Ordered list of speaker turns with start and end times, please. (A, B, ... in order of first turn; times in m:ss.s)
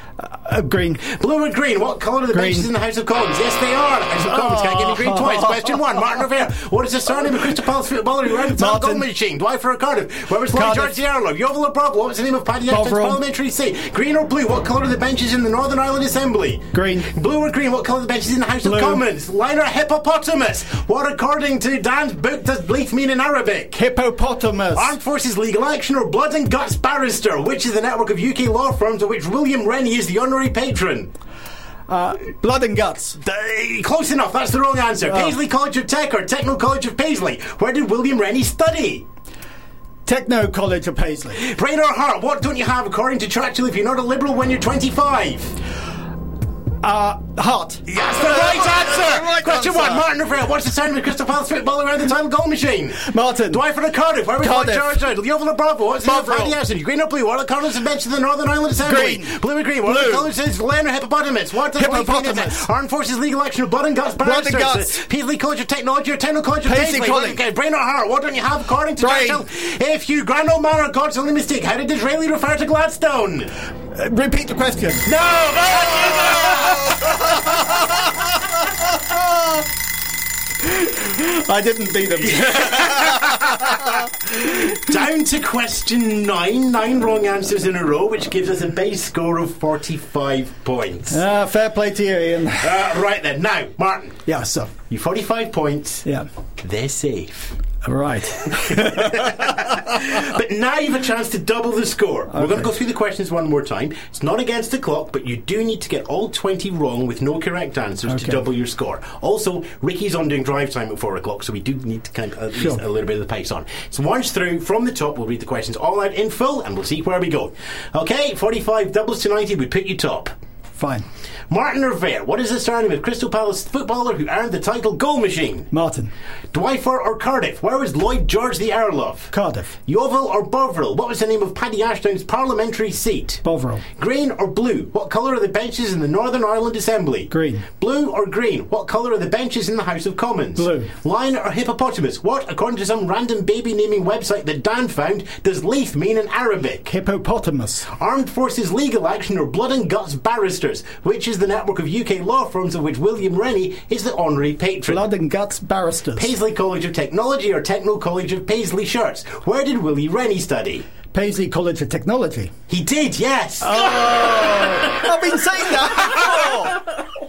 0:00.2-0:01.0 A
0:01.0-0:16.6 B
0:02.3-0:02.7 A
0:04.4-0:05.8 A
0:08.5-0:09.0 A
0:10.5-0:10.9 A
0:12.7-0:13.2 A
0:16.7-0:17.1 A
0:17.1-0:23.7 B
0:18.6-0:19.0 A
0:23.7-0:24.9 A
0:24.8-0:31.1 B
0:31.9-0:33.2 A
0:33.2-0:39.0 B
0:35.0-0:35.4 A
0:40.0-0:41.4 A
0:41.4-0:45.5 B
0:46.8-0:50.0 A
0:48.0-1:13.5 B
0:53.1-0:53.6 A
0:54.4-0:55.0 A
0:56.0-0:56.6 A
0:58.8-1:00.3 A
1:01.7-1:02.6 A
1:04.2-1:04.9 A
1:06.6-1:07.4 A
1:09.0-1:09.4 A
1:13.9-1:15.0 A
1:15.1-1:16.8 B
1:20.8-1:23.6 A
1:24.4-1:31.2 B
1:31.1-1:32.8 A
1:32.6-1:34.2 B
1:34.2-1:34.7 A
1:34.9-1:36.0 B
1:36.6-1:37.6 B
1:37.8-1:39.6 A
1:39.8-2:00.3 B
1:42.3-1:42.7 A
1:48.0-1:48.4 A
1:52.5-1:52.8 A
2:00.8-2:01.0 A
2:01.5-2:05.7 B
2:05.7-2:06.1 A
2:06.5-2:09.3 B
2:09.3-2:09.7 A
2:09.9-2:13.4 B
2:13.4-2:13.8 A
2:14.0-2:26.9 B
2:17.3-2:17.7 A
2:20.6-2:20.9 A
2:26.9-2:27.9 A
2:28.0-2:35.0 B
2:34.9-2:36.3 A
2:36.2-2:40.8 B
2:41.1-2:42.5 A
2:42.7-2:44.4 B
2:43.6-2:46.9 A